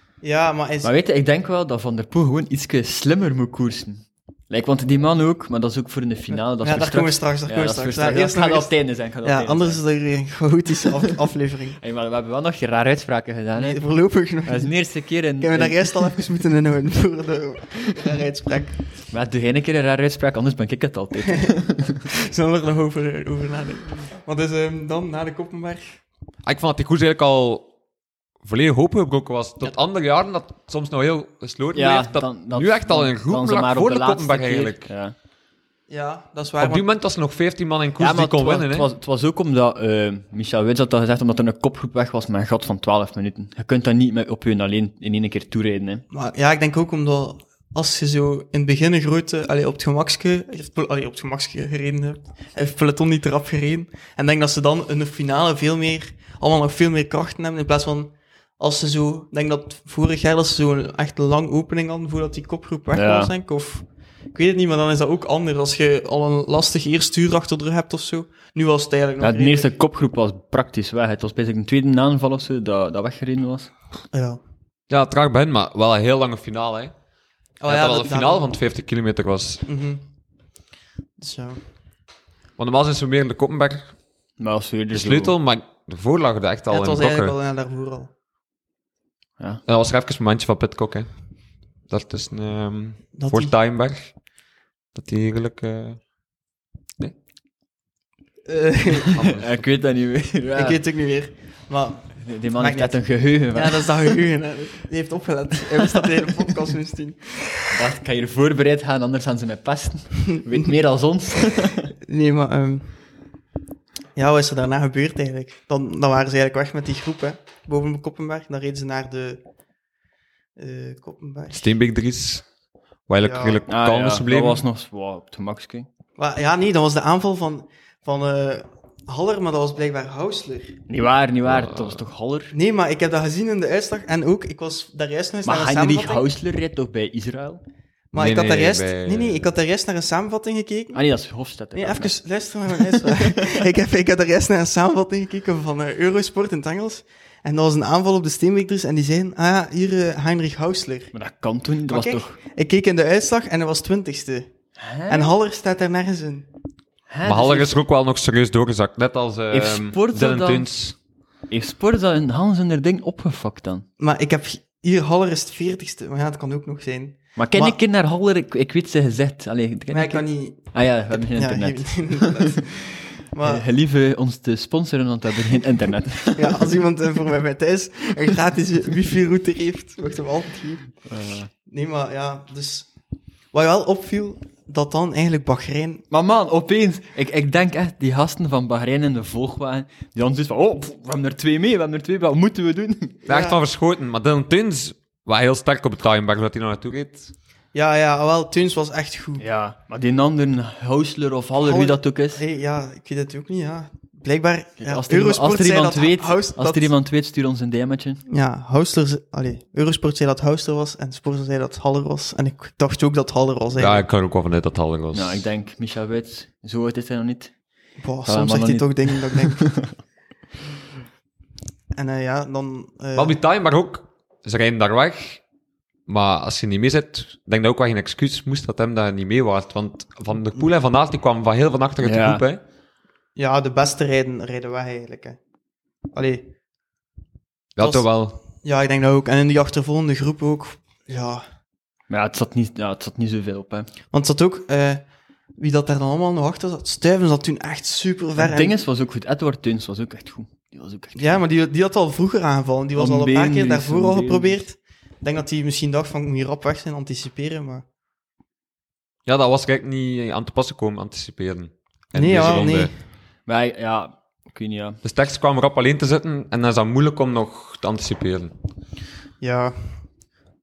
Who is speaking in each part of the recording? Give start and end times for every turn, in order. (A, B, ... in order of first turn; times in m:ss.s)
0:00.2-0:00.9 A
0:00.8-0:09.8 B
0:06.6-0:08.7 A
0:09.2-0:11.8 A
0:11.8-0:13.8 B
0:13.6-0:14.7 A
0:14.5-0:16.2 B
0:15.4-0:18.8 A
0:19.1-0:22.1 B
0:21.3-0:21.5 A
0:22.1-0:26.0 A
0:26.4-0:27.7 C
0:28.4-0:34.9 C
0:31.8-0:35.2 B
0:35.9-0:36.9 A
0:36.6-0:38.9 C
0:38.0-0:46.0 B
0:46.1-1:09.8 A
1:02.9-1:03.3 B
1:09.2-1:13.7 B
1:14.1-1:14.4 A
1:14.9-1:16.9 C
1:17.6-1:18.5 A
1:17.7-1:19.6 C
1:19.7-1:20.0 A
1:21.2-1:21.6 A
1:22.6-1:23.9 C
1:24.4-1:25.3 B
1:24.9-1:27.4 C
1:26.7-1:28.1 A
1:29.7-1:31.1 C
1:31.9-1:34.1 C
1:33.2-1:33.5 A
1:35.0-1:36.0 C
1:38.5-1:39.3 A
1:39.0-1:40.8 B
1:39.1-1:39.6 C
1:40.5-1:47.7 A
1:42.2-1:44.1 B
1:47.7-1:51.9 B
1:52.0-1:52.9 A
1:54.2-1:59.4 A
2:00.6-2:01.6 A
2:01.5-2:02.4 C
2:03.1-2:04.6 C
2:03.2-2:03.6 A
2:03.7-2:05.9 B
2:06.2-2:10.8 A
2:10.9-2:12.5 B
2:11.5-2:12.0 C
2:12.5-2:16.2 A
2:15.4-2:17.6 B
2:18.1-2:21.0 A
2:18.2-2:19.5 C
2:20.9-2:22.1 B
2:21.8-2:31.1 A
2:22.7-2:23.6 B
2:31.1-2:32.4 B
2:31.9-2:34.5 A
2:34.8-2:35.3 B
2:35.1-2:36.5 A
2:37.1-2:37.8 B
2:37.2-2:41.0 C
2:39.5-2:40.7 B
2:41.5-2:43.9 B
2:44.0-2:47.8 A
2:47.4-2:56.7 B
2:49.9-2:52.7 A
2:53.3-2:53.6 A
2:56.4-3:00.9 A
3:01.1-3:01.5 B
3:01.7-3:02.9 A
3:03.5-3:06.0 A
3:06.1-3:13.2 B
3:13.3-3:17.3 C
3:13.3-3:13.6 A
3:17.7-3:19.4 A
3:19.4-3:22.4 B
3:21.6-3:26.9 A
3:24.8-3:28.2 B
3:28.3-3:34.0 A
3:33.8-3:35.4 C
3:35.1-3:37.5 B
3:38.0-3:39.8 A
3:38.2-3:40.0 B
3:42.0-3:43.4 A
3:43.2-3:45.4 C
3:46.1-3:52.6 C
3:52.0-3:52.4 B
3:53.4-3:55.4 A
3:56.1-3:56.5 A
3:57.8-3:58.4 C
3:57.8-3:58.1 A
3:58.6-4:01.4 A
4:02.1-4:03.9 B
4:04.1-4:05.0 A
4:05.6-4:08.8 A
4:08.4-4:11.4 B
4:11.2-4:17.8 A
4:13.0-4:14.6 B
4:19.3-4:22.9 C
4:22.2-4:22.9 A
4:23.5-4:25.0 B
4:25.0-4:28.5 C
4:29.4-4:29.8 A